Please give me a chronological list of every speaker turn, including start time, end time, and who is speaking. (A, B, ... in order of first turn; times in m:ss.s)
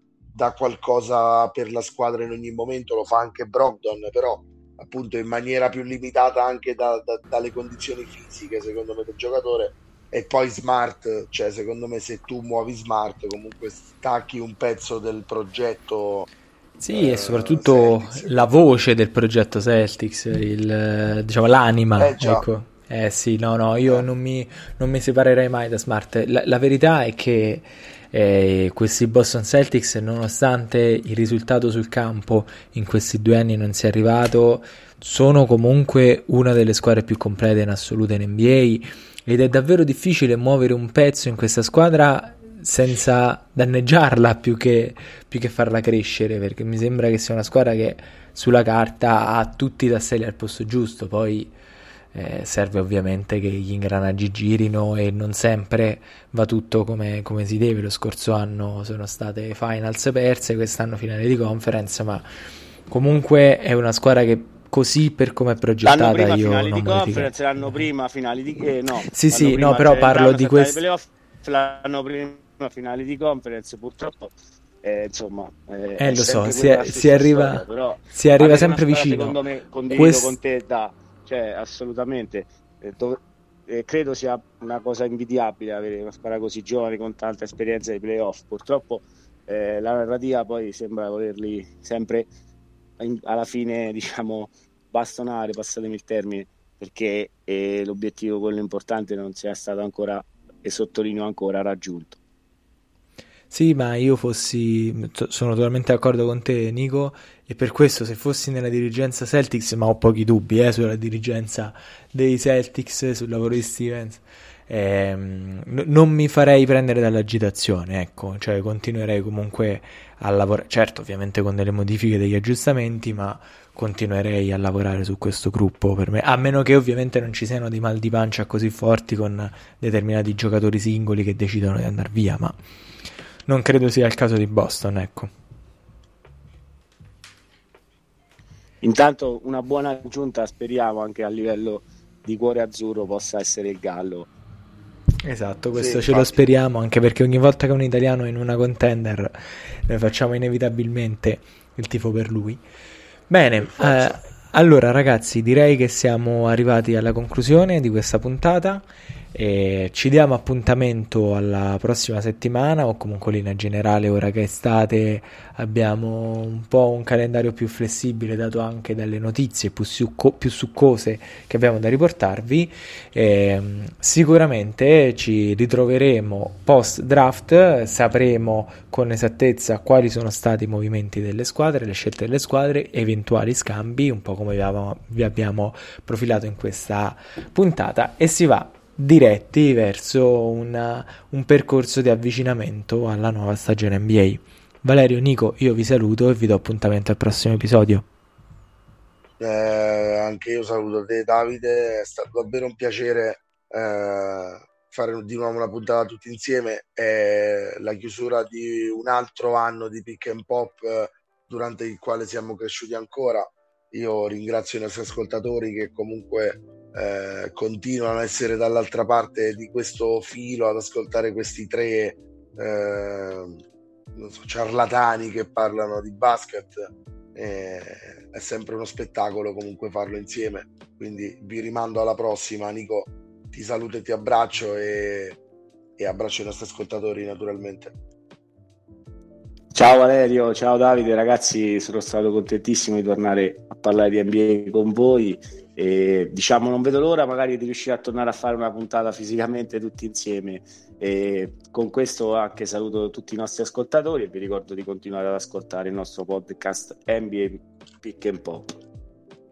0:00.3-0:16.3 A
0:16.8-0:51.5 B
0:16.9-0:18.5 A
0:22.0-0:22.4 A
0:52.1-1:02.2 B
1:02.9-1:07.8 B
1:05.8-1:32.3 C
1:09.1-1:10.8 B
1:16.0-1:19.4 B
1:19.9-1:20.4 B
1:33.0-1:42.2 C
1:43.5-2:12.5 B
2:13.5-2:15.3 B
2:18.8-2:24.3 C
2:25.2-2:32.6 B
2:25.7-2:26.4 A
2:33.3-3:18.0 B
2:33.6-2:34.2 A
3:19.4-3:43.6 A
3:44.1-3:55.4 A
3:56.0-3:57.9 A
3:59.7-4:18.8 C